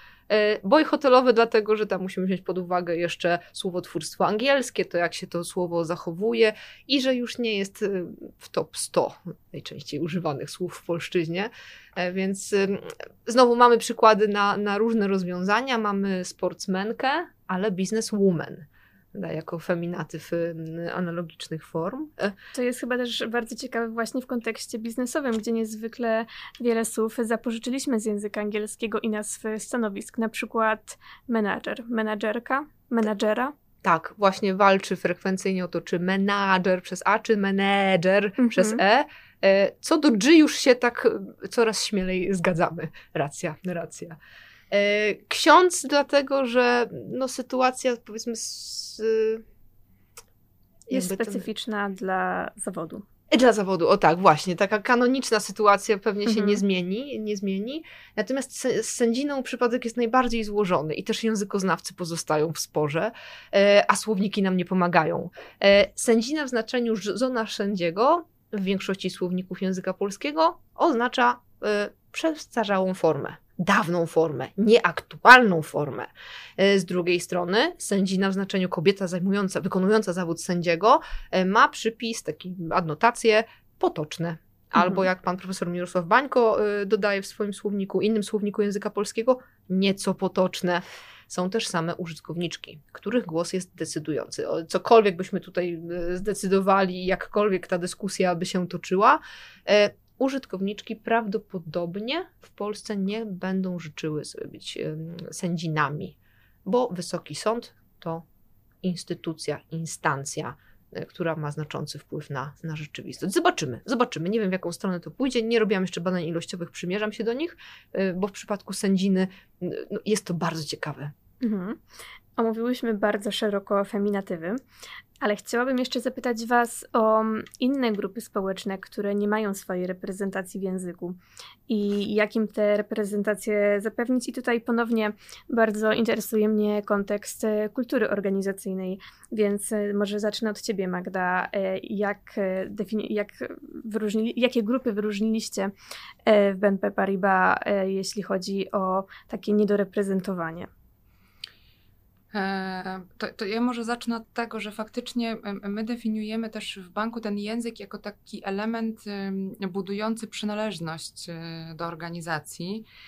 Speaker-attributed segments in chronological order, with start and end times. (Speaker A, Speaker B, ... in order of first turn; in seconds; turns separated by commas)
Speaker A: 0.3-22.3, Speaker B: 22.5-33.5, Speaker A: 33.8-44.2, Speaker B: 38.4-38.8, Speaker A: 44.7-49.4, Speaker A: 50.9-51.5, Speaker B: 50.9-53.0, Speaker A: 53.3-108.2, Speaker B: 56.3-56.6, Speaker A: 108.8-121.1, Speaker B: 121.4-121.8, Speaker B: 122.4-124.6, Speaker B: 125.2-145.7, Speaker B: 146.2-150.7, Speaker C: 152.3-162.8